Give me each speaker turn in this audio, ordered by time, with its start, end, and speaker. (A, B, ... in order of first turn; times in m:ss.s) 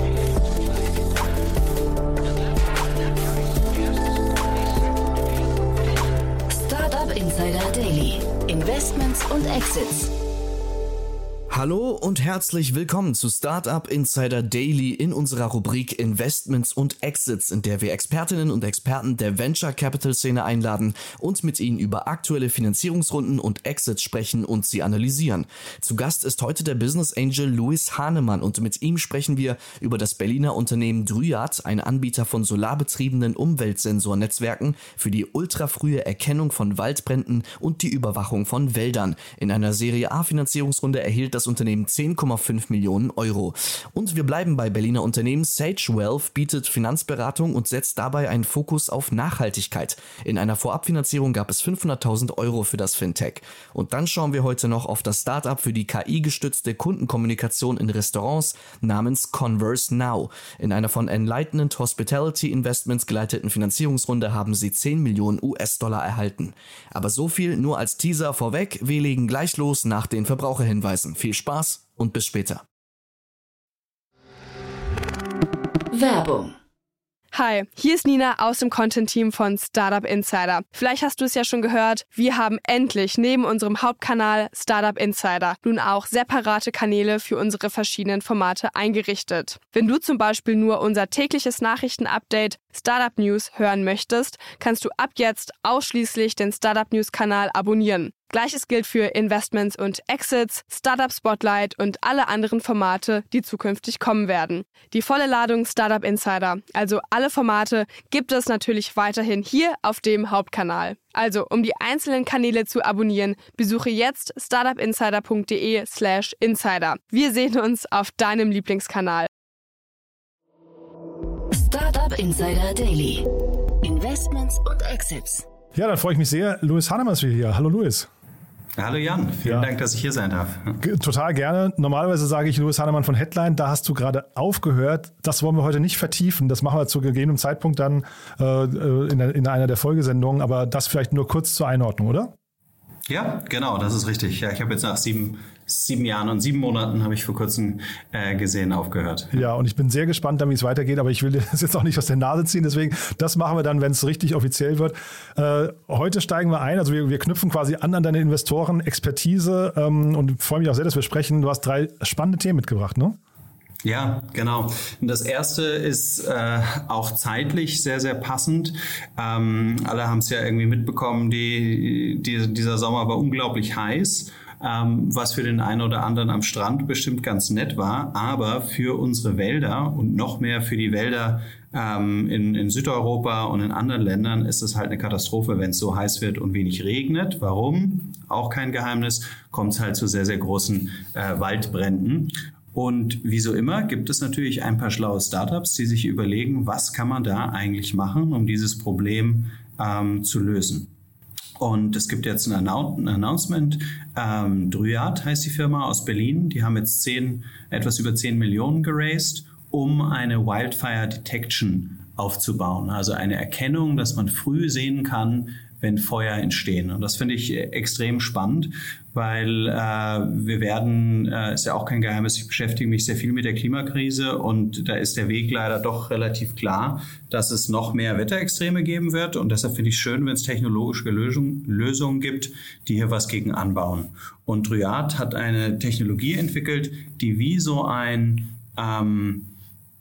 0:06.5-0:10.1 A
0:11.5-1:12.6 B
1:15.9-1:16.6 A
1:17.3-1:59.3 C
2:01.5-2:03.2 A
2:03.8-2:05.4 A
2:05.8-2:08.1 D
2:08.8-2:10.8 E
2:10.8-2:22.3 D
2:23.1-2:29.4 E
2:29.3-2:43.2 D
2:43.8-3:20.9 E
3:21.6-3:59.5 E